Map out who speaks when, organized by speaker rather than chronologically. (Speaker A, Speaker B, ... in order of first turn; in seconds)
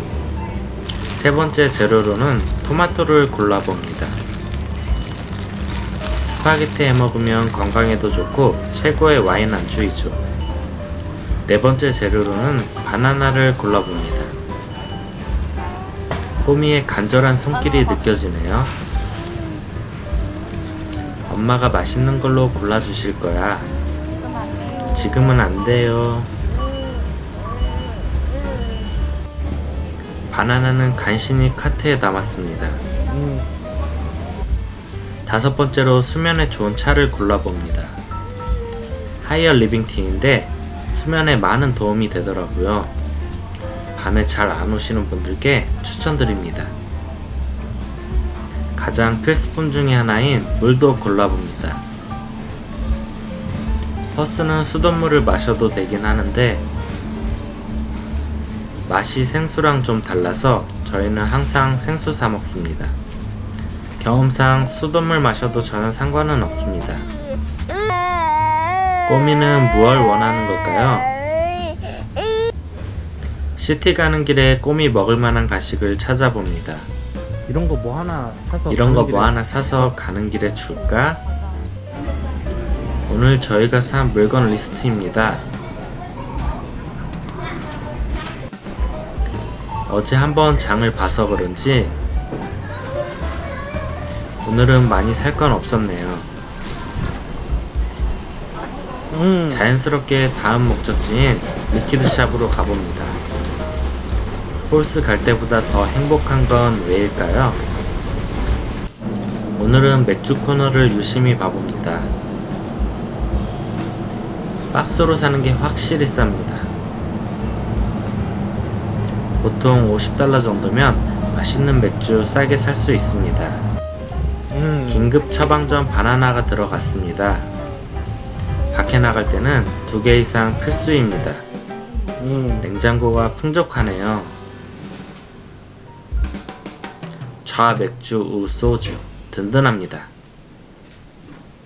Speaker A: 1.2-4.2, 6.2-10.2, 11.5-14.4, 16.4-18.7, 21.3-23.7, 24.9-26.3, 30.3-32.8, 35.2-38.0, 39.2-42.9, 44.0-46.7, 48.8-51.8, 54.1-56.6, 58.9-63.0, 64.0-67.1, 69.0-71.1, 73.6-76.9, 78.7-81.2, 83.1-85.4, 89.9-92.0, 94.4-96.3, 99.5-103.2, 104.7-107.6, 109.6-112.1, 114.7-116.7, 119.4-123.7, 124.9-127.5, 128.7-131.4, 132.6-134.3, 137.4-140.1
Speaker B: 33.1-33.5, 77.5-79.4, 99.1-99.7, 124.5-125.0, 132.2-132.7